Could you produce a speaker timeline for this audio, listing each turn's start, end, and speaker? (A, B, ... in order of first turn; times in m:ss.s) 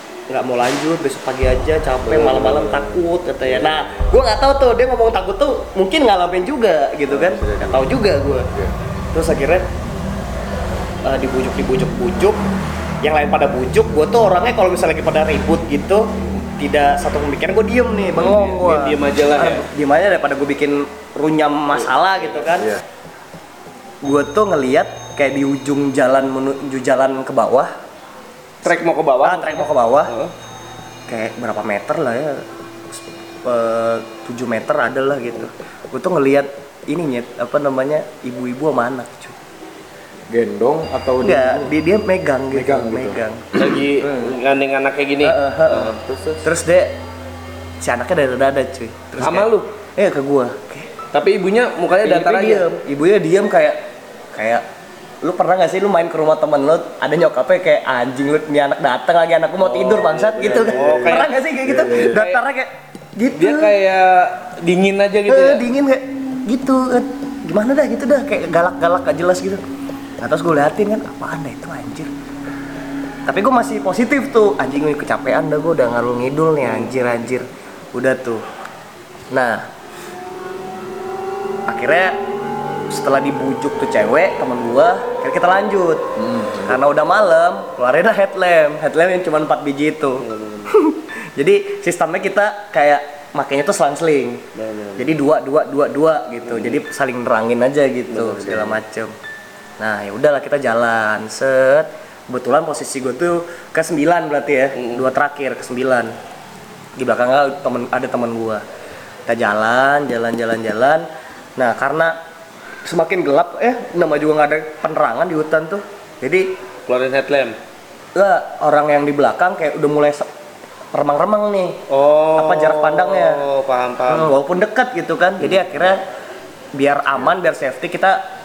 0:00.3-0:08.5 A
0:02.0-0:03.0 B
0:07.1-0:07.9 C
0:09.1-0:09.7 A
0:11.0-0:12.4 A
0:13.0-0:22.8 A
0:18.2-0:19.6 B
0:21.8-0:22.4 B
0:24.0-0:27.7 A
0:28.6-0:30.3 B
0:29.2-0:30.1 A
0:31.1-0:39.4 A
0:40.3-0:41.8 C
0:41.2-0:44.3 A
0:42.5-0:43.2 C
0:43.5-0:46.4 B
0:45.2-0:46.9 A
0:47.8-0:50.9 A
0:49.2-0:49.7 B
0:51.1-0:52.7 B
0:52.0-0:53.8 A
0:54.3-0:54.6 A
0:55.2-1:03.7 A
0:59.6-1:02.4 B
1:00.5-1:02.2 C
1:03.4-1:05.6 B
1:05.3-1:09.6 A
1:10.2-1:12.1 A
1:13.3-1:18.4 A
1:16.6-1:17.0 B
1:19.3-1:19.7 A
1:21.7-1:22.2 A
1:22.9-1:34.4 A
1:26.2-1:26.8 C
1:30.2-1:30.7 B
1:34.6-1:35.1 B
1:35.0-1:39.1 A
1:36.5-1:36.8 B
1:38.1-1:38.8 B
1:39.8-1:46.1 A
1:44.8-1:45.0 B
1:47.0-1:48.6 A
1:49.3-1:52.2 A
1:52.8-1:56.5 A
1:56.9-1:57.6 B
1:58.1-2:00.3 A
2:00.9-2:01.8 A
2:01.9-2:04.3 B
2:02.4-2:03.4 A
2:04.1-2:06.0 A
2:06.7-2:08.2 A